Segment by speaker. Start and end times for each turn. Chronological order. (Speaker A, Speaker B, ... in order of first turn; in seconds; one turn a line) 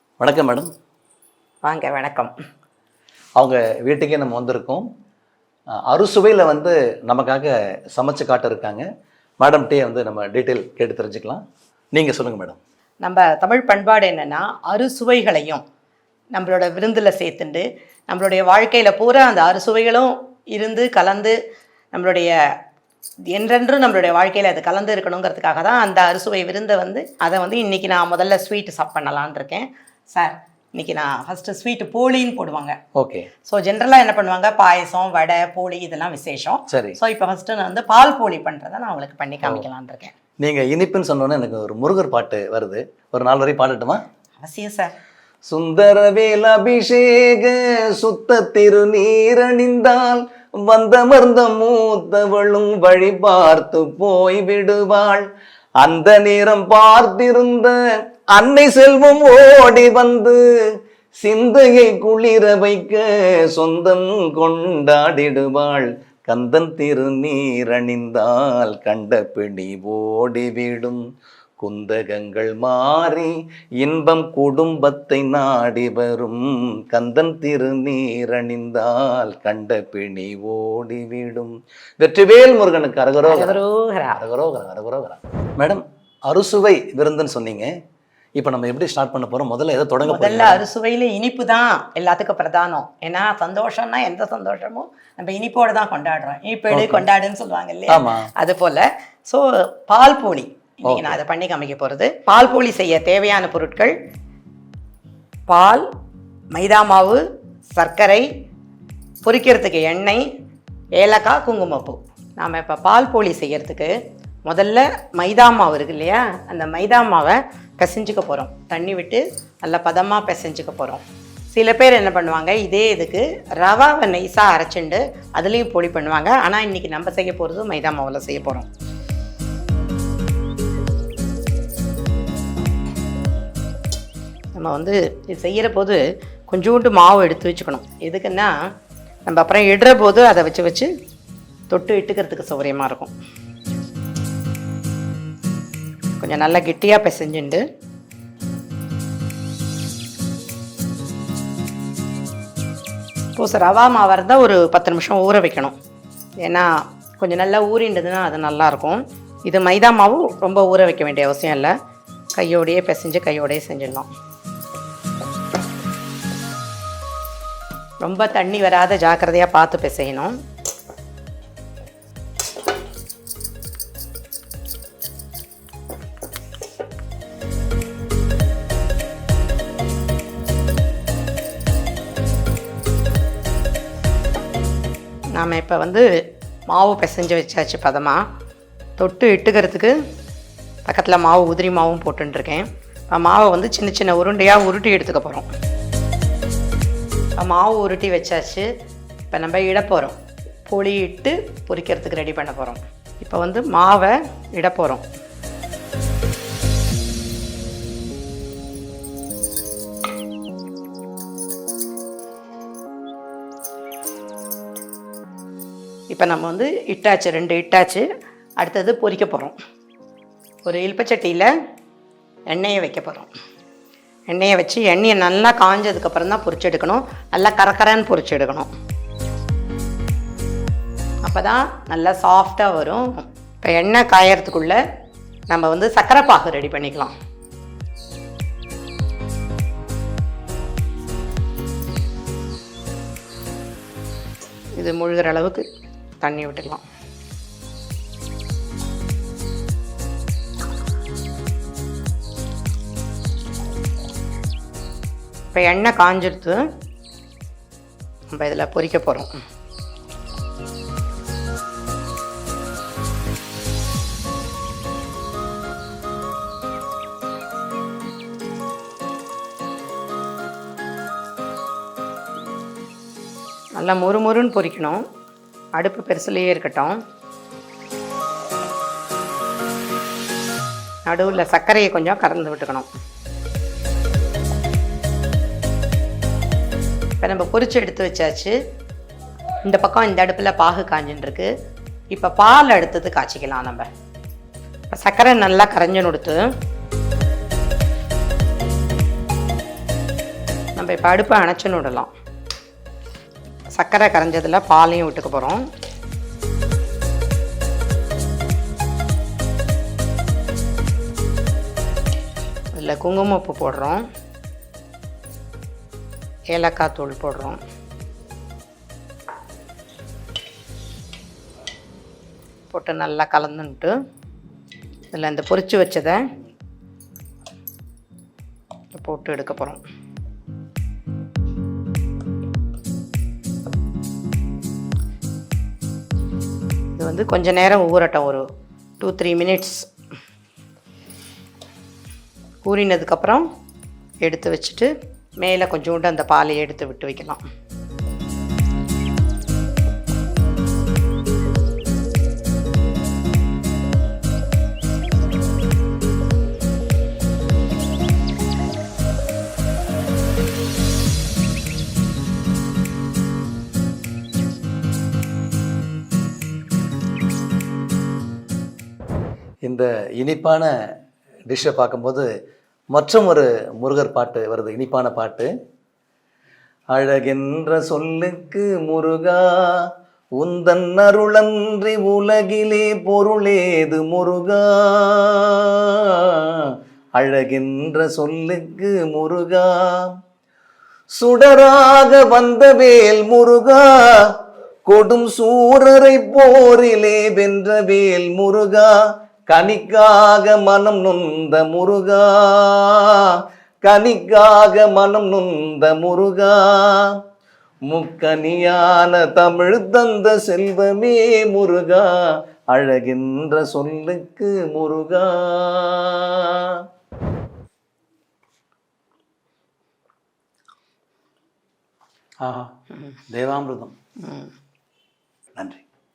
Speaker A: 0.2-0.7
Speaker B: 1.6-2.3
Speaker A: 3.4-4.9
Speaker A: 5.9-8.8
Speaker A: 9.4-11.4
Speaker A: 11.9-12.6
Speaker B: 13.0-15.6
Speaker B: 16.4-21.4
Speaker B: 21.9-22.3
Speaker B: 23.3-32.8
Speaker A: 33.0-33.3
Speaker B: 33.5-40.1
Speaker A: 36.7-37.0
Speaker A: 40.4-44.0
Speaker B: 44.4-45.0
Speaker A: 45.5-55.3
Speaker A: 55.8-57.8
Speaker A: 58.3-60.5
Speaker A: 61.2-71.0
Speaker A: 71.6-83.6
Speaker B: 83.3-84.2
Speaker A: 84.2-87.7
Speaker A: 88.4-90.6
Speaker B: 90.0-104.0
Speaker A: 96.7-97.0
Speaker A: 97.9-98.3
Speaker A: 100.9-101.2
Speaker B: 105.5-105.9
Speaker B: 106.5-107.2
Speaker B: 107.8-108.3
Speaker B: 109.2-110.2
Speaker B: 111.0-114.0
Speaker B: 114.5-128.7
Speaker B: 134.6-138.5
Speaker B: 139.3-140.9
Speaker B: 141.7-143.1
Speaker B: 146.2-147.6
Speaker B: 153.4-155.8
Speaker B: 156.4-161.7
Speaker B: 162.3-164.1
Speaker B: 168.0-170.3
Speaker B: 185.3-186.0
Speaker B: 186.7-188.2
Speaker B: 189.0-189.9
Speaker B: 190.8-195.5
Speaker B: 197.4-198.7
Speaker B: 199.3-205.1
Speaker B: 216.1-218.1
Speaker B: 218.6-219.6
Speaker B: 220.7-221.5
Speaker B: 222.5-223.3
Speaker B: 224.3-228.7
Speaker B: 231.3-234.8
Speaker B: 235.5-237.1
Speaker B: 244.8-245.6
Speaker B: 246.2-246.8
Speaker B: 255.5-256.7
Speaker B: 258.3-259.3
Speaker B: 273.8-275.0
Speaker B: 275.8-277.0
Speaker B: 281.1-282.9
Speaker B: 287.2-288.6
Speaker B: 289.6-291.5
Speaker B: 292.1-293.9
Speaker B: 294.9-296.4
Speaker B: 300.8-302.1
Speaker B: 303.7-305.6
Speaker B: 312.8-314.0
Speaker B: 316.5-317.6
Speaker B: 322.7-323.9
Speaker B: 325.1-326.2
Speaker B: 328.9-329.8
Speaker B: 337.0-338.4
Speaker B: 339.0-339.9
Speaker B: 342.6-343.4
Speaker B: 344.2-347.4
Speaker A: 369.6-370.7
Speaker A: 371.5-372.3
Speaker A: 372.9-375.5
Speaker A: 376.9-379.9
Speaker A: 380.4-390.1
Speaker A: 391.1-394.3
Speaker A: 394.9-398.9
Speaker A: 399.5-403.3
Speaker A: 403.8-407.1
Speaker A: 407.9-412.1
Speaker A: 412.7-416.8
Speaker A: 422.4-422.7
Speaker A: 423.3-423.9
Speaker B: 424.2-424.5
Speaker A: 425.6-425.8